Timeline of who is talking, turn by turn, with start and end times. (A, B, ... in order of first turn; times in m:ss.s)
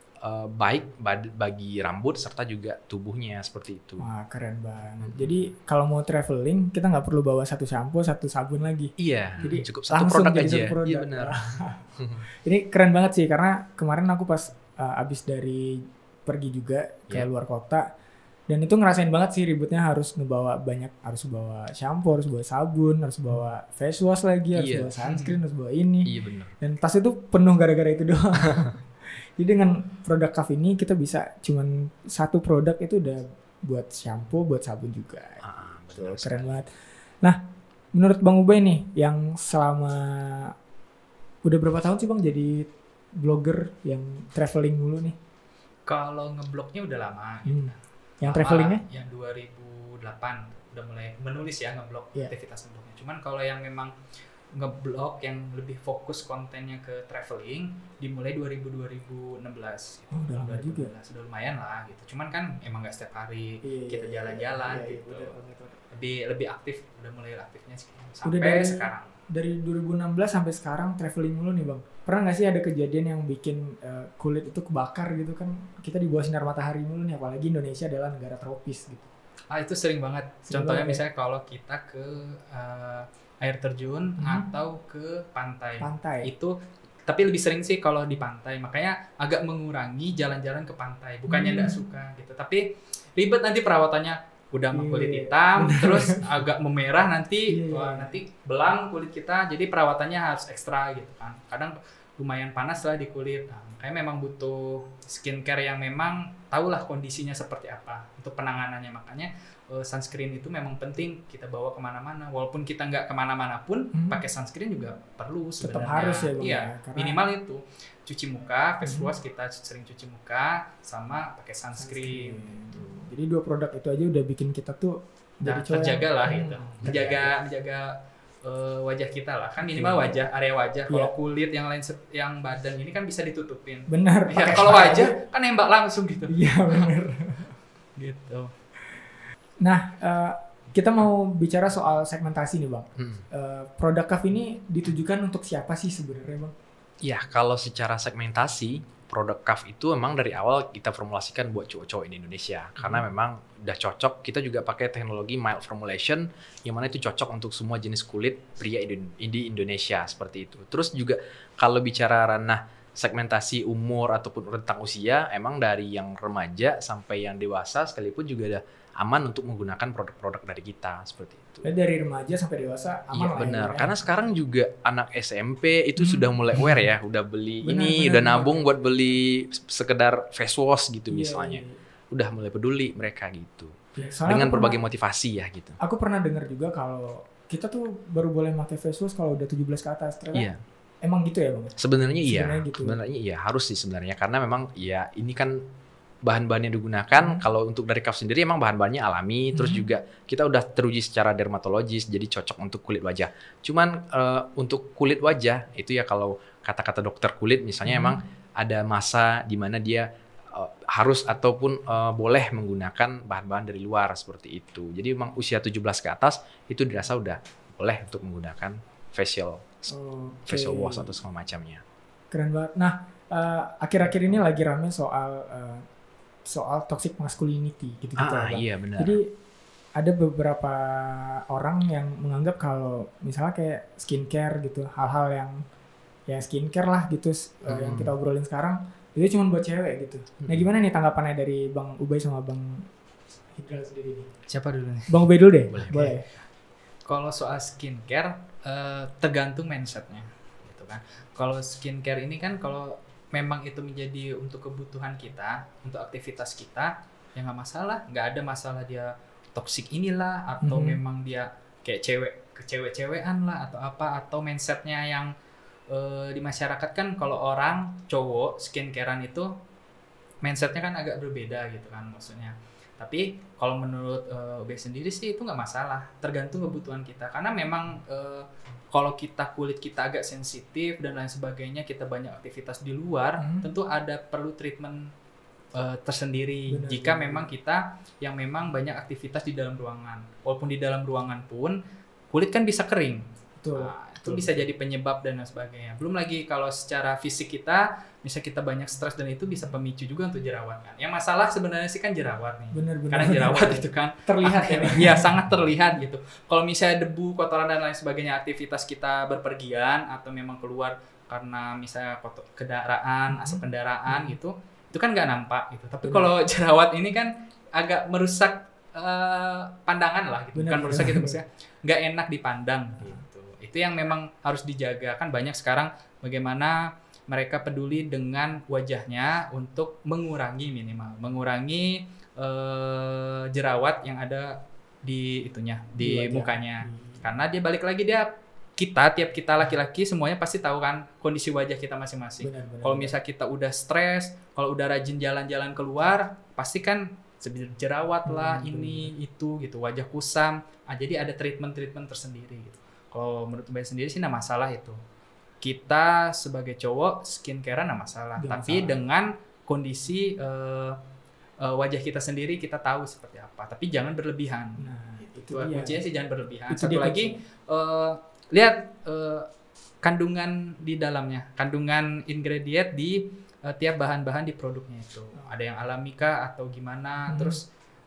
0:00.2-0:04.1 A
0:04.0-0:11.9 B
0:05.0-0:05.4 A
0:09.0-0:11.4 A
0:12.0-0:12.2 A
0:12.4-0:17.8 B
0:18.5-0:35.4 B
0:24.5-0:24.9 A
0:25.0-0:25.4 C
0:26.0-0:26.6 A
0:28.4-0:28.7 A
0:35.4-0:36.6 A
0:36.0-0:36.7 B
0:37.9-0:40.5 B
0:41.4-0:45.2 B
0:45.9-0:53.9 C
0:47.4-0:48.8 B
0:54.5-1:05.4 C
1:00.1-1:00.9 B
1:03.6-1:05.8 B
1:05.9-1:09.1 C
1:08.2-1:19.1 B
1:19.5-1:26.5 C
1:20.5-1:21.0 B
1:24.2-1:24.5 B
1:25.8-1:26.3 B
1:27.0-2:02.9 C
1:31.3-1:31.8 B
1:34.7-1:36.3 B
1:37.5-1:38.2 B
1:53.9-1:54.2 B
1:55.6-1:57.2 B
1:58.8-1:59.1 B
2:01.8-2:07.3 B
2:05.4-2:16.9 C
2:09.6-2:10.2 B
2:10.9-2:11.1 B
2:13.9-2:15.1 B
2:16.3-2:17.5 B
2:18.0-2:18.5 C
2:19.6-2:26.5 B
2:23.0-2:23.2 A
2:27.0-2:51.7 A
2:51.6-2:54.1 B
2:53.1-3:05.8 A
2:56.0-2:56.9 B
2:57.6-2:58.8 B
3:01.1-3:01.8 B
3:04.0-3:04.8 B
3:05.8-3:10.5 B
3:10.3-3:10.6 A
3:11.0-3:13.0 B
3:11.8-3:15.6 A
3:16.2-3:39.9 A
3:17.2-3:17.4 B
3:19.5-3:19.9 B
3:27.8-3:28.2 B
3:39.9-3:41.2 B
3:40.5-3:41.8 A
3:42.3-3:45.8 B
3:46.4-3:49.3 B
3:48.2-3:49.2 A
3:50.0-3:55.6 B
3:56.3-4:02.9 B
3:57.7-3:58.1 A
4:03.5-4:04.3 B
4:04.5-4:05.3 C
4:05.1-4:06.3 B
4:05.7-4:06.2 A
4:07.1-4:25.3 C
4:20.6-4:21.0 B
4:25.9-4:29.5 C
4:30.4-4:45.1 C
4:43.4-4:43.7 B
4:45.7-4:51.8 C
4:46.7-4:47.5 B
4:52.3-5:55.0 C
4:53.6-4:54.6 B
5:02.7-5:05.3 B
5:13.3-5:14.4 B
5:16.0-5:16.3 B
5:20.5-5:21.4 B
5:36.0-5:37.3 B
5:42.4-5:43.1 B
5:48.2-5:49.1 B
5:55.6-6:01.0 C
5:58.4-5:59.0 B
6:01.6-6:09.5 C
6:04.8-6:06.0 B
6:06.7-6:07.3 B
6:10.0-6:17.6 C
6:17.3-6:17.6 B